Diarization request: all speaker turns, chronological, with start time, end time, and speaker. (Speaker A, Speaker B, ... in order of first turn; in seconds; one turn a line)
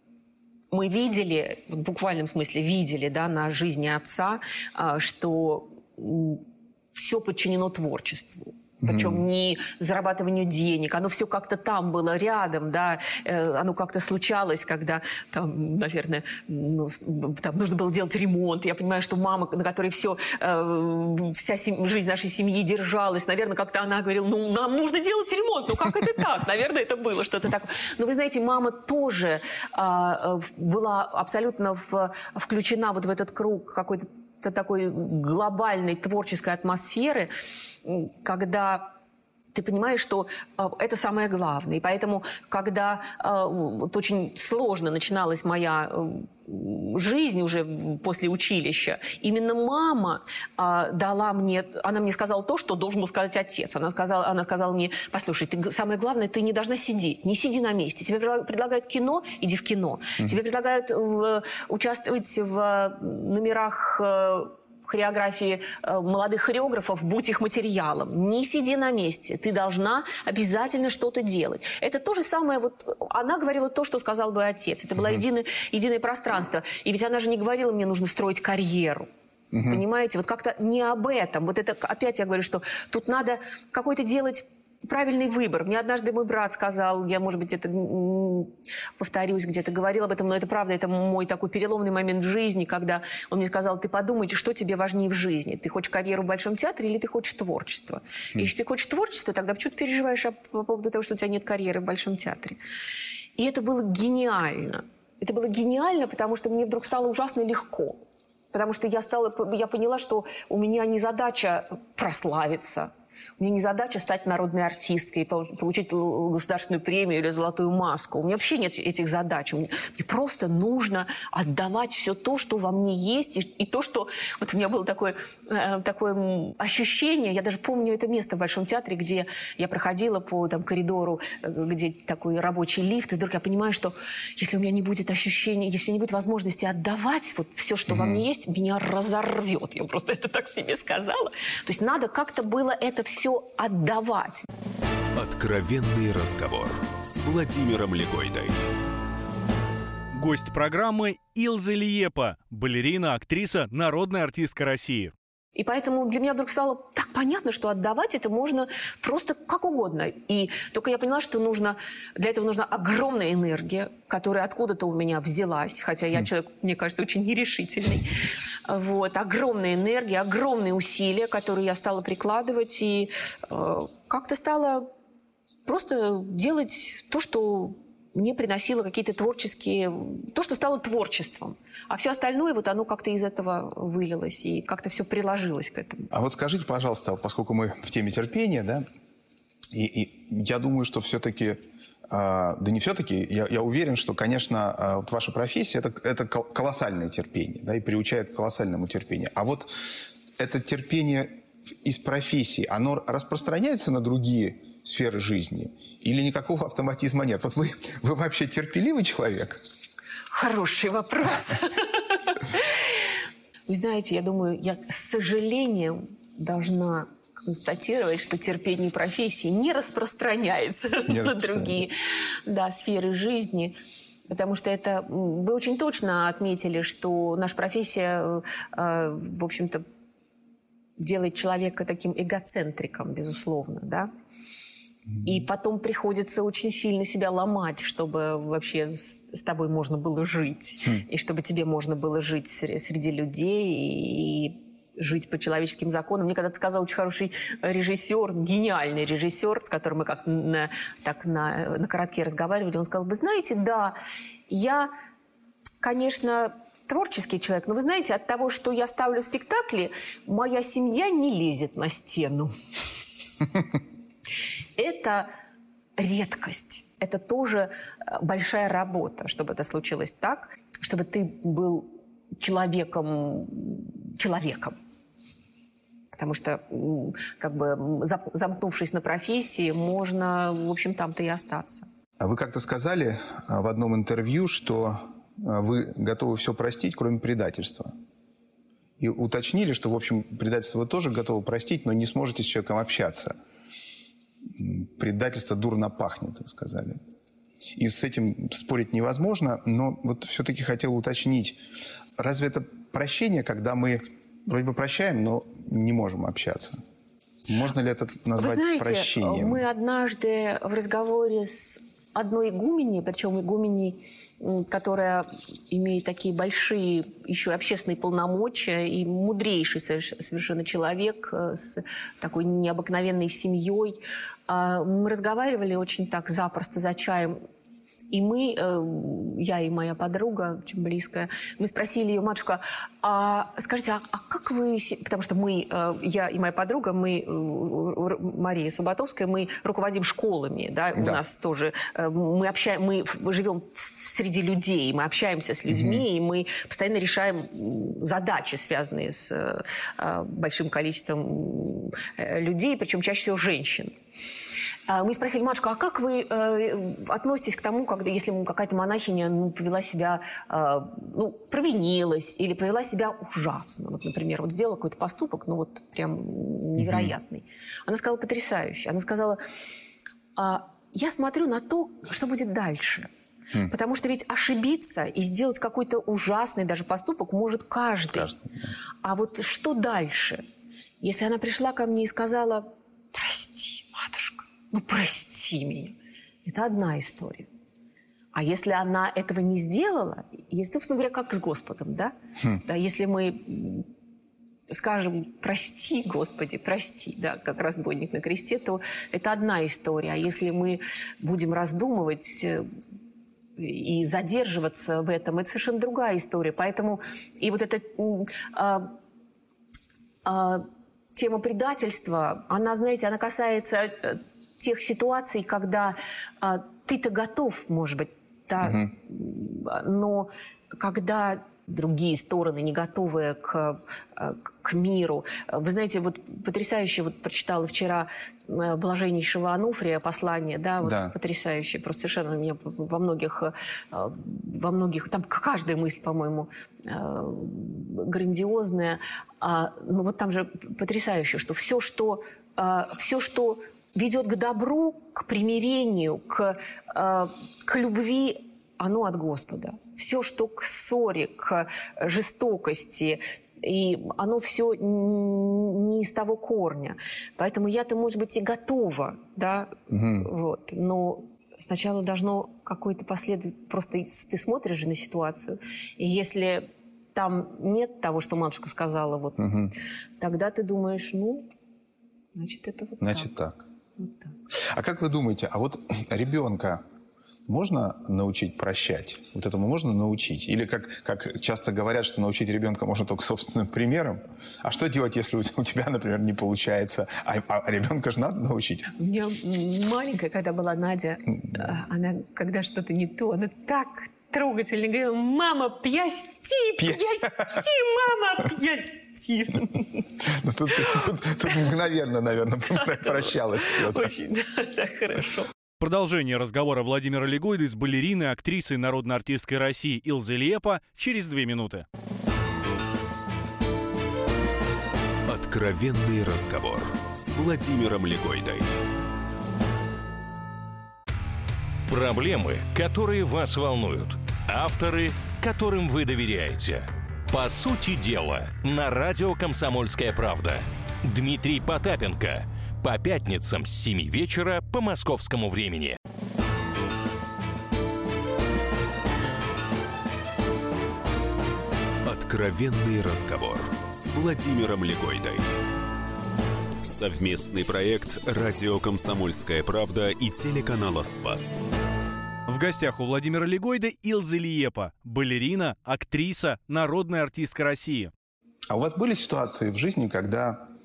Speaker A: 0.7-37.3
Speaker B: 8.8-9.2
Speaker A: 37.8-38.9
Speaker A: 39.5-79.1
Speaker B: 79.5-79.8
Speaker A: 79.6-102.6
Speaker A: 103.4-108.0
Speaker A: 108.5-144.4
Speaker B: 137.9-138.2
Speaker C: 145.2-148.6
Speaker D: 150.1-155.1
Speaker A: 155.5-168.1
Speaker A: 168.7-174.9
Speaker A: 175.6-186.1
Speaker B: 186.1-188.8
Speaker B: 189.7-209.6
Speaker A: 210.3-213.1
Speaker A: 213.7-221.9
Speaker B: 221.1-221.9
Speaker A: 222.4-223.8
Speaker A: 224.3-229.8
Speaker A: 231.0-234.1
Speaker A: 235.2-254.0
Speaker A: 254.5-254.9
Speaker A: 255.8-262.5
Speaker A: 264.8-265.3
Speaker A: 266.0-274.7
Speaker A: 276.1-281.9
Speaker B: 282.2-287.9
Speaker B: 289.0-293.3
Speaker B: 294.5-297.0
Speaker B: 297.8-301.6
Speaker B: 302.2-306.8
Speaker B: 307.5-309.6
Speaker A: 308.4-327.4
Speaker A: 328.1-353.9
Speaker B: 345.7-346.0
Speaker A: 354.9-369.4
Speaker B: 366.8-367.1
Speaker A: 370.4-373.1
Speaker A: 373.6-378.3
Speaker B: 378.1-378.7
Speaker A: 379.0-380.4
Speaker A: 381.0-387.5
Speaker A: 388.3-393.9
Speaker A: 394.7-402.6
Speaker A: 403.6-408.9
Speaker A: 410.2-471.4
Speaker B: 418.6-418.9
Speaker B: 430.8-431.1
Speaker B: 459.9-460.3
Speaker B: 469.4-469.7
Speaker A: 472.3-473.3
Speaker B: 473.0-473.6
Speaker A: 474.0-474.3
Speaker B: 474.5-476.8
Speaker B: 477.5-488.9
Speaker A: 489.0-500.1
Speaker B: 496.8-497.6
Speaker B: 500.2-504.1
Speaker A: 502.8-505.5
Speaker D: 505.8-511.8
Speaker C: 515.3-518.7
Speaker E: 521.9-536.0
Speaker C: 542.0-545.4
Speaker C: 546.8-551.6
Speaker D: 552.5-558.1
Speaker B: 558.7-560.7